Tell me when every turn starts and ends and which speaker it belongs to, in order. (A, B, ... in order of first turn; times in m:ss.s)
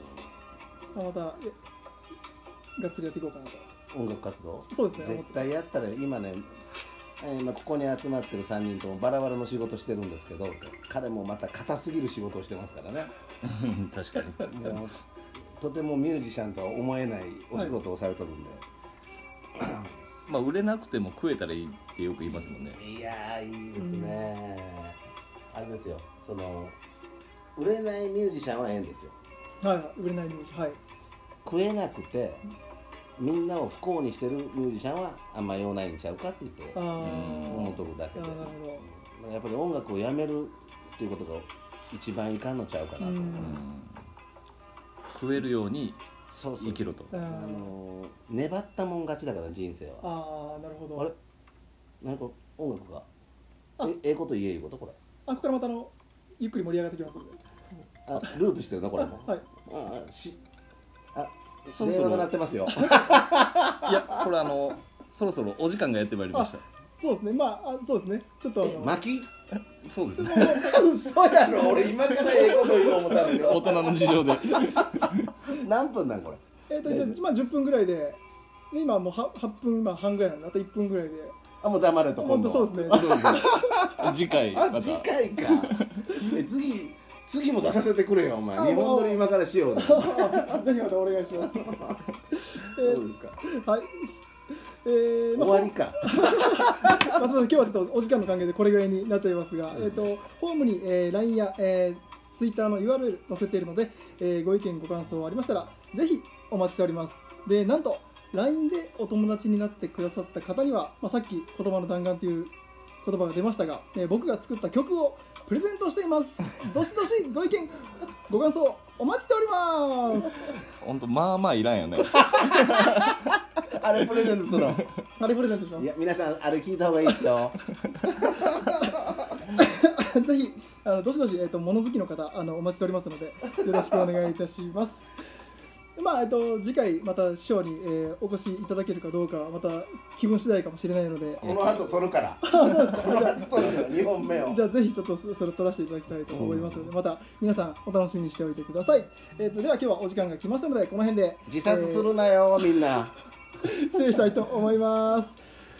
0:00.9-0:01.6 A
0:02.8-0:03.7 A
0:03.9-0:06.5 B
0:04.7-0:05.5 A
0:07.2-0:13.1 B
0:13.4-0:14.5 C
0:14.4-0:18.6 B
0:19.6-0:19.9 B
0:20.3-0:22.8 C
0:22.7-0:25.0 B
0:23.8-0:24.3 A
0:25.5-0:26.8 B
0:27.6-0:29.2 B
0:29.6-0:30.8 A
0:31.4-0:32.4 B
0:33.2-0:43.6 B
0:36.8-0:38.9 A
0:37.0-0:37.8 C
0:43.0-0:43.6 A
0:43.4-0:44.0 C
0:45.1-0:47.1 C
0:46.3-0:50.1 B
0:47.1-0:47.8 A
0:50.0-0:51.1 A
0:52.0-0:53.1 B
0:53.8-0:55.0 B
0:55.3-0:57.4 A
0:58.1-1:00.4 B
0:59.0-0:59.4 A
1:01.1-1:04.3 B
1:01.7-1:02.3 C
1:02.8-1:03.1 A
1:03.8-1:06.6 C
1:06.3-1:09.0 A
1:08.6-1:09.3 B
1:09.8-1:10.8 C
1:10.2-1:10.8 A
1:10.2-1:17.2 B
1:11.8-1:13.4 A
1:12.2-1:15.4 C
1:16.7-1:21.4 A
1:21.6-1:30.7 B
1:22.2-1:24.0 A
1:24.0-1:26.4 C
1:28.6-1:31.8 A
1:31.4-1:32.0 B
1:32.3-1:34.2 A
1:32.6-1:33.4 B
1:34.8-2:00.6 A
1:35.4-1:37.1 B
2:00.8-2:03.4 C
2:02.1-2:03.1 B
2:03.6-2:04.8 B
2:05.2-2:05.9 A
2:05.8-2:08.8 B
2:08.4-2:08.8 A
2:09.5-2:15.1 A
2:16.0-2:21.6 A
2:21.4-2:24.6 B
2:21.4-2:21.8 C
2:22.4-2:32.3 A
2:26.3-2:26.9 B
2:31.5-2:33.2 B
2:33.6-2:35.4 A